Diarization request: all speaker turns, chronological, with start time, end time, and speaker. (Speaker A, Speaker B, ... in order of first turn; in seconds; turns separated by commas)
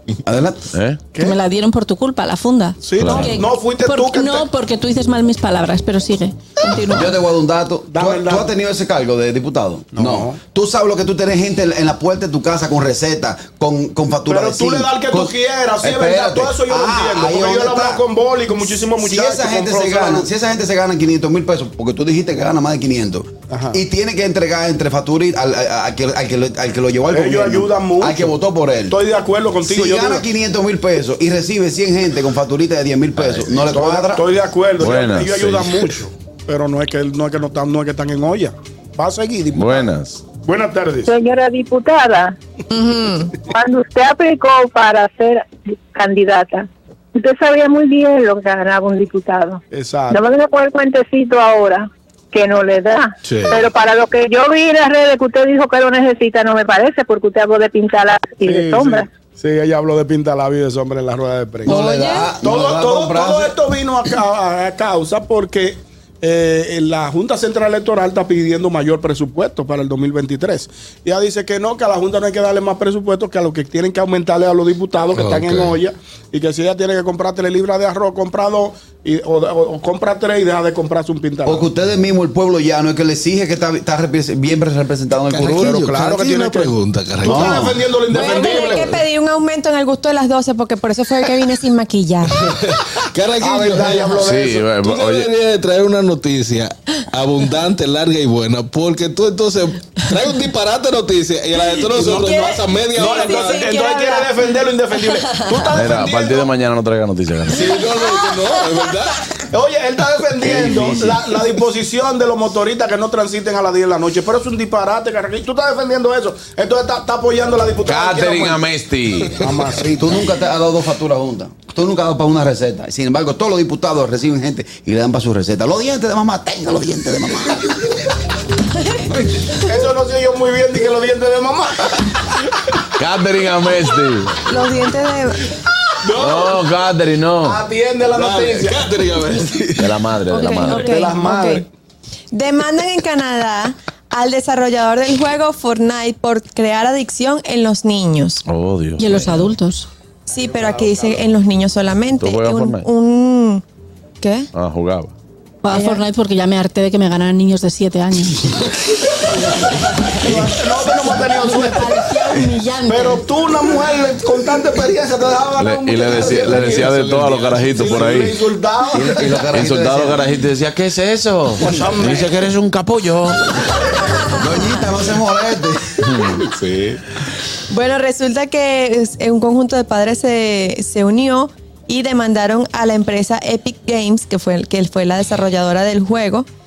Speaker A: 0.2-0.6, Speaker B: 0.7-1.0, Speaker C: 1.1-1.4, Speaker D: 1.2-7.2, Speaker C: 2.8-4.5, Speaker B: 3.0-3.4, Speaker A: 6.8-18.0, Speaker C: 7.9-8.5, Speaker C: 9.9-10.4, Speaker C: 14.3-20.3, Speaker A: 19.0-29.0, Speaker C: 23.5-23.8, Speaker C: 27.1-28.3, Speaker C: 28.9-30.2, Speaker A: 29.7-34.2, Speaker B: 33.2-33.6, Speaker C: 33.7-39.9, Speaker B: 34.8-35.9, Speaker B: 39.5-40.2, Speaker C: 40.4-41.1, Speaker E: 41.1-42.4, Speaker E: 42.9-59.1, Speaker C: 49.7-50.2, Speaker F: 53.2-53.6, Speaker C: 58.4-61.8, Speaker A: 61.7-63.6, Speaker E: 61.7-62.2, Speaker C: 62.4-81.7, Speaker F: 75.1-75.8, Speaker A: 81.5-85.8, Speaker F: 85.3-87.9, Speaker C: 85.5-89.0, Speaker A: 87.2-87.8, Speaker G: 88.1-92.4, Speaker F: 92.3-103.7, Speaker C: 93.4-94.7, Speaker B: 94.2-95.3, Speaker C: 101.9-106.5, Speaker B: 105.7-107.7, Speaker C: 107.5-108.5, Speaker F: 107.6-109.2, Speaker C: 109.3-118.7, Speaker A: 110.4-111.2, Speaker B: 117.8-119.4, Speaker C: 119.3-120.3, Speaker A: 120.0-127.9, Speaker C: 129.6-132.2, Speaker B: 133.0-134.4, Speaker G: 134.5-135.5, Speaker C: 136.0-136.6, Speaker B: 136.2-137.6, Speaker C: 137.4-138.9, Speaker F: 138.1-140.0, Speaker B: 139.8-140.8, Speaker G: 140.3-141.7, Speaker D: 140.5-141.3, Speaker C: 140.7-141.7, Speaker G: 142.3-148.4, Speaker B: 148.5-149.5, Speaker D: 149.0-149.9, Speaker G: 150.3-153.6, Speaker C: 150.4-151.3, Speaker B: 152.2-152.9, Speaker G: 154.2-154.5, Speaker B: 154.5-155.1, Speaker D: 155.6-158.7, Speaker G: 155.7-156.0, Speaker D: 160.0-163.3, Speaker C: 160.2-167.0, Speaker B: 165.6-168.4, Speaker F: 166.1-168.2, Speaker C: 167.6-169.4, Speaker A: 168.9-170.3, Speaker B: 169.2-173.6, Speaker C: 171.6-172.4, Speaker A: 174.3-176.3, Speaker B: 176.0-176.3, Speaker F: 176.4-177.0, Speaker G: 177.7-186.5